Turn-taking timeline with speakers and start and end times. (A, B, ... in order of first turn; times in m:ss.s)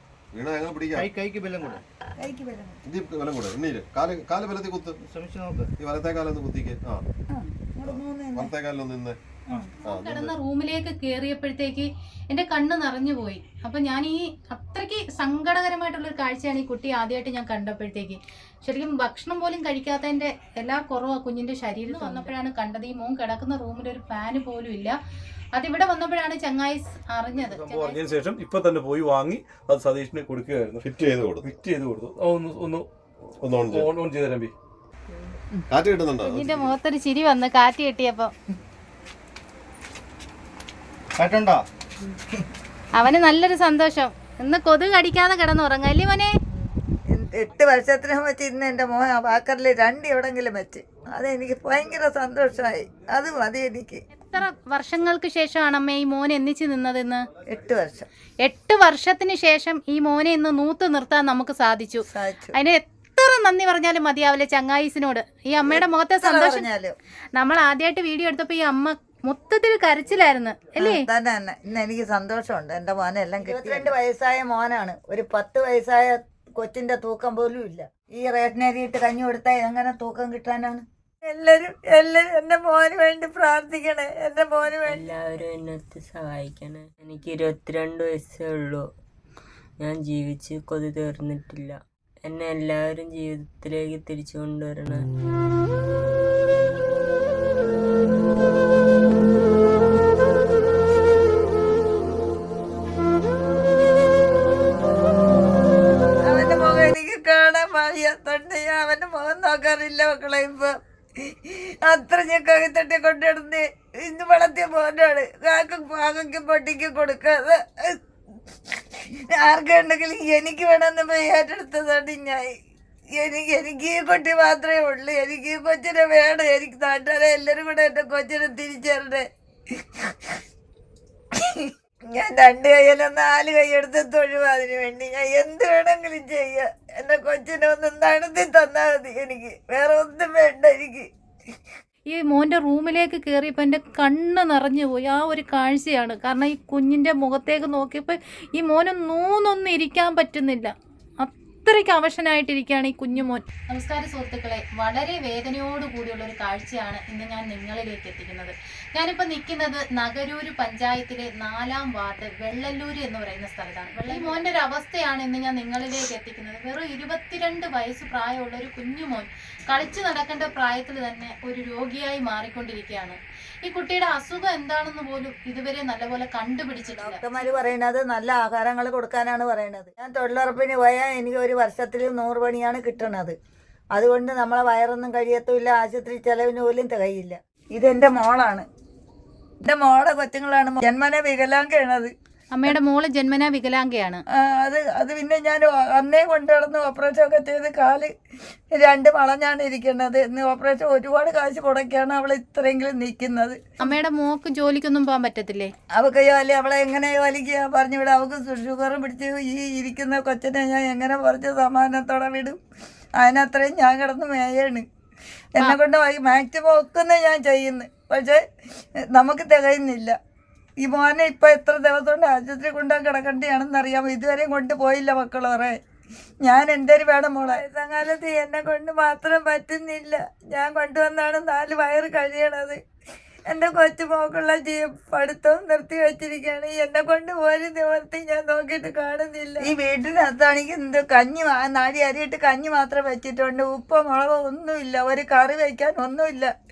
0:00.3-0:01.1 A
0:01.0-0:01.8 B
0:02.2-0:02.8 C
0:02.9-0:05.0 A
0:05.0-0:05.7 B
0:05.8-0:07.0 A
0:07.3-0:08.5 C
0:07.8-0:09.2 A
0:09.5-0:25.0 D
0:09.9-0:10.3 A
0:25.6-0:28.0 D
0:27.4-0:30.9 E
0:30.8-0:31.5 A
0:31.4-0:32.9 E
0:33.4-0:33.9 A
0:33.5-0:34.5 E
0:35.7-0:36.8 A
0:36.3-0:38.3 D
0:41.2-0:41.6 B
0:43.0-0:46.3 D
0:47.1-0:54.0 C
0:54.3-0:57.2 D
0:57.5-0:58.1 C
0:58.4-1:02.0 D
1:02.1-1:02.5 C
1:02.6-1:06.7 D
1:05.6-1:07.0 C
1:07.4-1:11.0 D
1:10.8-1:25.0 C
1:24.8-1:28.9 F
1:29.8-1:35.0 F
1:46.2-1:50.7 C
1:51.3-1:58.0 C
1:59.1-2:02.6 C
2:03.2-2:09.2 C
2:11.6-2:21.1 C
2:22.1-2:57.5 D
2:56.8-3:03.3 C
3:04.0-3:08.7 C
3:09.6-3:12.1 C
3:12.5-3:14.2 D
3:14.4-3:18.1 C
3:18.7-3:23.9 C
3:23.8-3:25.7 D
3:26.0-3:32.6 C
3:33.2-3:34.8 C
3:35.6-3:38.4 C
3:39.1-3:40.2 C
3:40.8-3:45.8 C
3:46.4-3:52.8 C
3:53.5-4:06.5 C